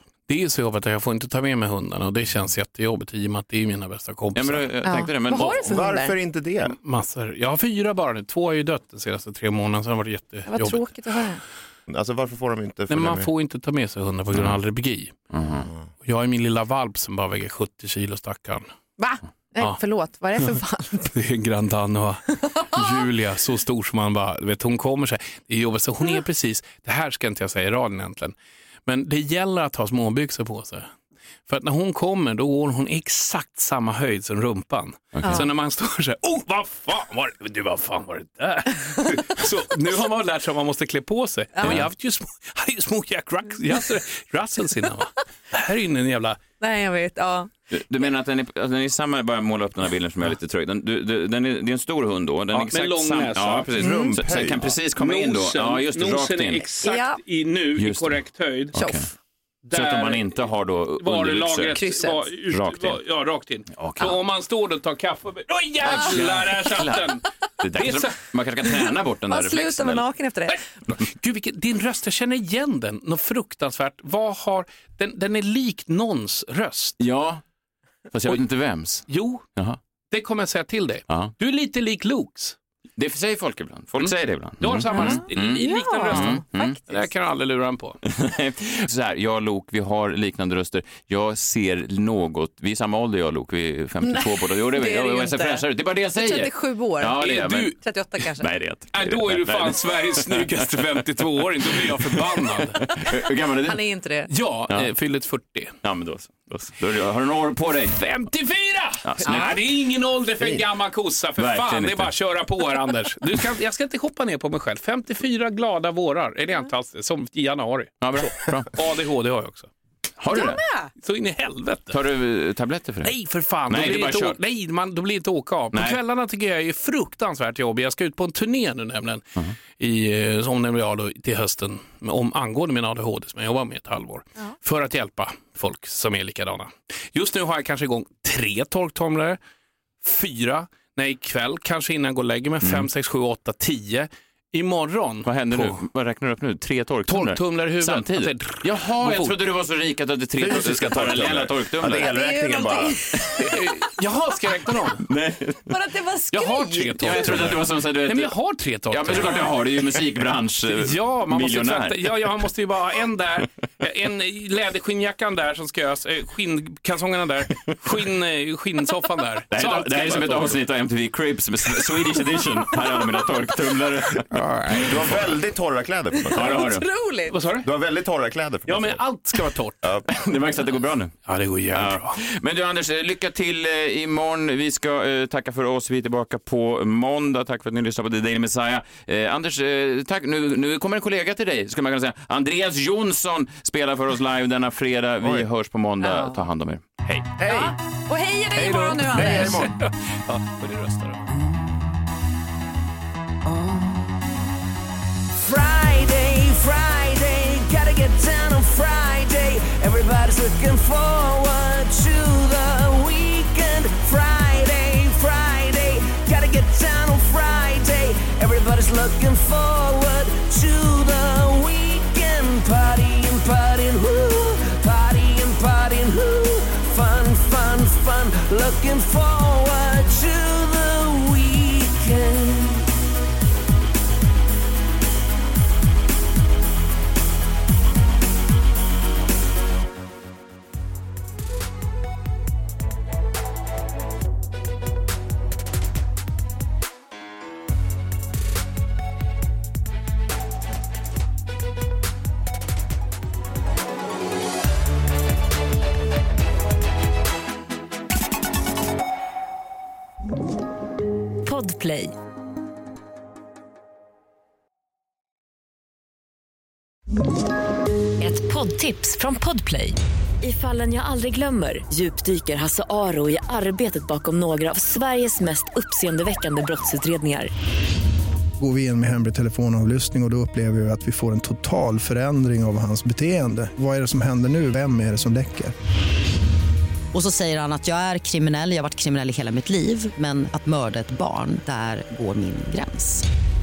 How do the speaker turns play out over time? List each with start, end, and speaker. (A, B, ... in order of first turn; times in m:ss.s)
0:00.3-0:04.7 A
0:04.3-0:05.7 B
0:04.8-0:06.1 C
0:05.3-0:06.8 D
0:06.7-0:10.9 A
0:10.5-0:11.4 C
0:11.9-0:13.3 D
0:12.9-0:15.2 A
0:15.3-0:15.7 B
0:16.0-0:18.7 A
0:19.0-0:21.1 C
0:21.1-0:28.3 A
0:28.8-0:30.9 A
0:31.5-0:46.4 A
0:35.1-0:35.5 B
0:41.6-0:41.9 B
0:46.6-0:47.5 C
0:47.7-0:56.7 B
0:52.5-0:53.7 A
0:53.8-0:54.7 D
0:53.8-0:54.2 C
0:54.9-0:58.7 A
0:56.8-0:57.2 C
0:57.8-0:59.1 B
0:58.8-0:59.0 C
0:59.6-1:07.2 A
0:59.7-1:01.8 B
1:01.7-1:02.3 C
1:02.5-1:03.0 B
1:03.7-1:04.2 B
1:05.8-1:10.0 B
1:07.7-1:08.2 A
1:09.3-1:10.6 C
1:10.5-1:17.0 A
1:17.0-1:17.4 B
1:18.1-1:19.8 B
1:19.1-1:19.4 A
1:20.1-1:22.6 A
1:21.1-1:21.3 B
1:23.0-1:26.9 B
1:24.0-1:28.0 A
1:24.9-1:27.0 C
1:28.0-1:37.8 B
1:34.0-1:35.6 C
1:36.1-1:38.5 C
1:37.2-1:37.7 A
1:38.4-1:40.7 B
1:38.9-1:43.0 A
1:41.6-1:43.8 B
1:43.6-1:44.3 C
1:44.3-1:45.8 A
1:45.8-1:48.0 B
1:47.9-1:59.7 A
1:49.0-1:49.6 B
1:51.4-1:52.1 B
1:58.0-1:58.7 B
2:00.2-2:00.6 B
2:00.3-2:00.9 C
2:01.0-2:02.0 A
2:01.9-2:03.1 B
2:03.0-2:19.4 A
2:03.7-2:04.4 B
2:05.7-2:06.0 B
2:20.0-2:25.8 A
2:22.6-2:22.9 B
2:25.2-2:32.1 B
2:27.1-2:29.4 A
2:30.4-2:33.0 D
2:32.0-2:33.4 C
2:33.4-2:35.0 A
2:35.0-2:35.6 B
2:35.7-2:37.4 C
2:36.3-2:39.7 A
2:36.9-2:38.4 B
2:38.9-2:42.4 B
2:40.7-2:50.6 A
2:49.5-2:54.3 B
2:54.3-2:55.1 A
2:54.7-2:56.6 D
2:56.2-2:57.4 C
2:56.3-2:56.8 B
2:57.3-2:57.7 A
2:57.6-2:59.0 D
2:58.7-2:59.8 A
3:00.0-3:01.2 B
3:01.2-3:02.2 A
3:01.7-3:17.4 B
3:15.2-3:15.5 D
3:16.0-3:16.4 C
3:17.4-3:17.7 D
3:17.4-3:19.7 C
3:18.6-3:21.3 A
3:19.1-3:19.7 D
3:25.4-3:52.8 E
4:21.4-4:22.1 F
4:28.2-4:37.5 F
4:38.6-4:45.7 G
4:47.1-4:53.2 H